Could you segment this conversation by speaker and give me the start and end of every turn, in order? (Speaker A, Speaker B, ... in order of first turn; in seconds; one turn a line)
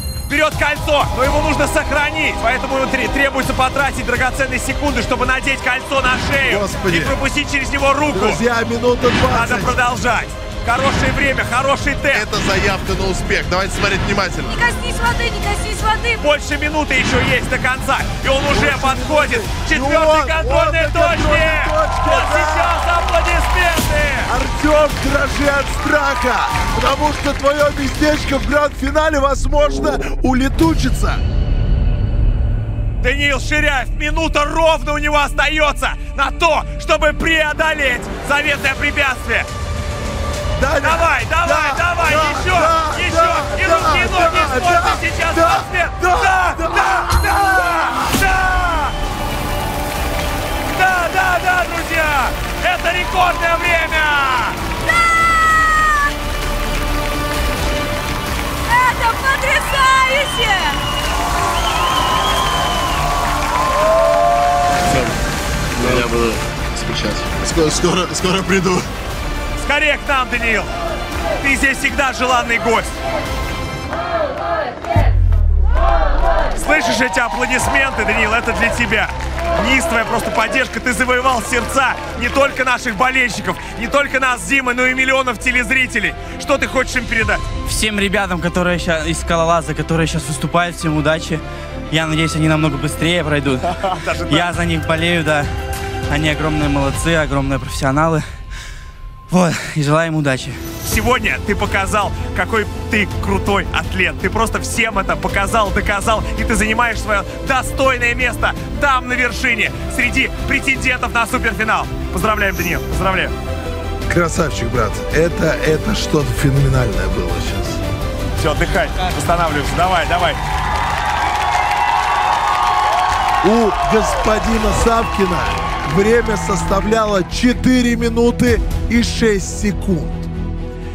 Speaker A: 0.3-8.4
Speaker B: 6.5-7.2
Speaker B: 8.1-9.7
Speaker A: 9.3-12.3
Speaker B: 12.1-14.6
Speaker C: 14.5-16.2
Speaker A: 16.2-24.3
Speaker B: 18.5-22.8
Speaker B: 24.3-31.2
Speaker A: 33.0-39.5
Speaker B: 40.6-47.4
Speaker A: 40.8-48.9
Speaker A: 50.7-54.6
Speaker C: 54.8-56.1
Speaker C: 58.7-60.8
Speaker D: 64.9-65.2
Speaker D: 65.8-68.8
Speaker A: 69.6-70.7
Speaker A: 71.4-73.0
Speaker A: 76.6-87.4
Speaker E: 87.7-93.6
Speaker A: 93.9-94.5
Speaker E: 94.3-95.5
Speaker E: 96.1-98.2
Speaker E: 99.3-100.6
Speaker A: 100.8-113.3
Speaker B: 114.1-117.8
Speaker A: 118.4-120.4
Speaker B: 123.4-130.3